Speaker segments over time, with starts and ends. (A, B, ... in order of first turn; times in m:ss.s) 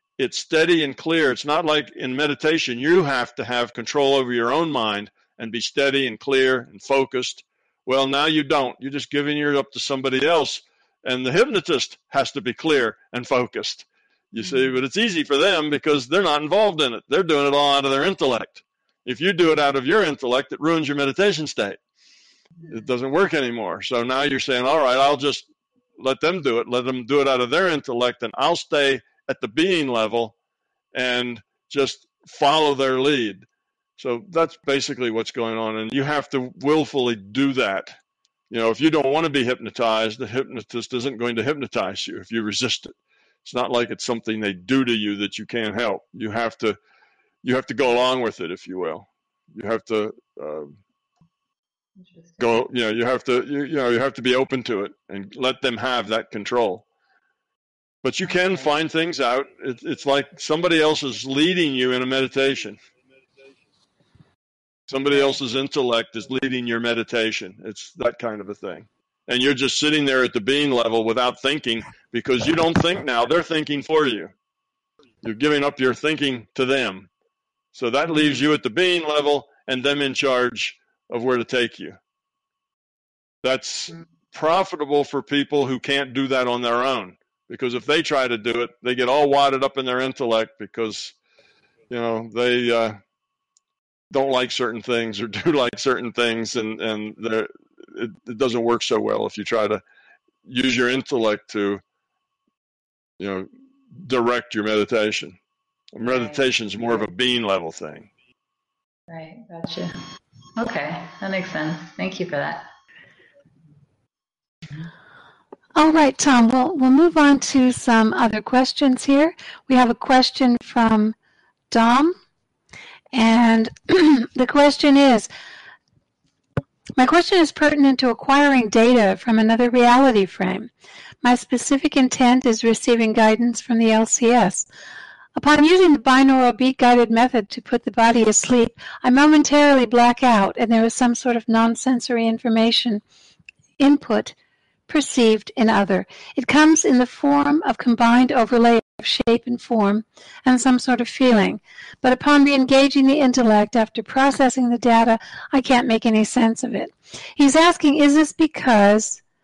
0:00.2-0:21.8 A
0:22.7-0:30.4 A
0:30.9-0:33.5 A
0:34.0-0:38.0 A
0:38.5-0:42.9 A
0:43.4-0:46.8 A
0:47.4-0:50.7 A
0:52.0-0:52.5 B
0:52.4-0:56.8 A
0:58.0-1:02.8 A
0:58.3-0:58.7 B
1:04.9-1:14.3 A
1:15.2-1:17.1 A
1:17.7-1:22.0 A
1:23.4-1:31.1 A
1:31.9-1:33.0 A
1:34.1-1:39.8 A
1:40.4-1:41.8 A
1:43.2-1:45.4 A
1:45.9-1:48.1 A
1:46.0-1:46.4 B
1:49.1-1:50.0 B
1:50.6-1:52.7 B
1:55.8-2:01.1 C
2:01.7-2:02.1 C
2:03.1-2:05.3 C
2:07.0-2:10.7 C
2:11.2-2:14.7 C
2:15.4-2:23.0 C
2:23.8-2:24.4 C
2:24.9-2:39.2 C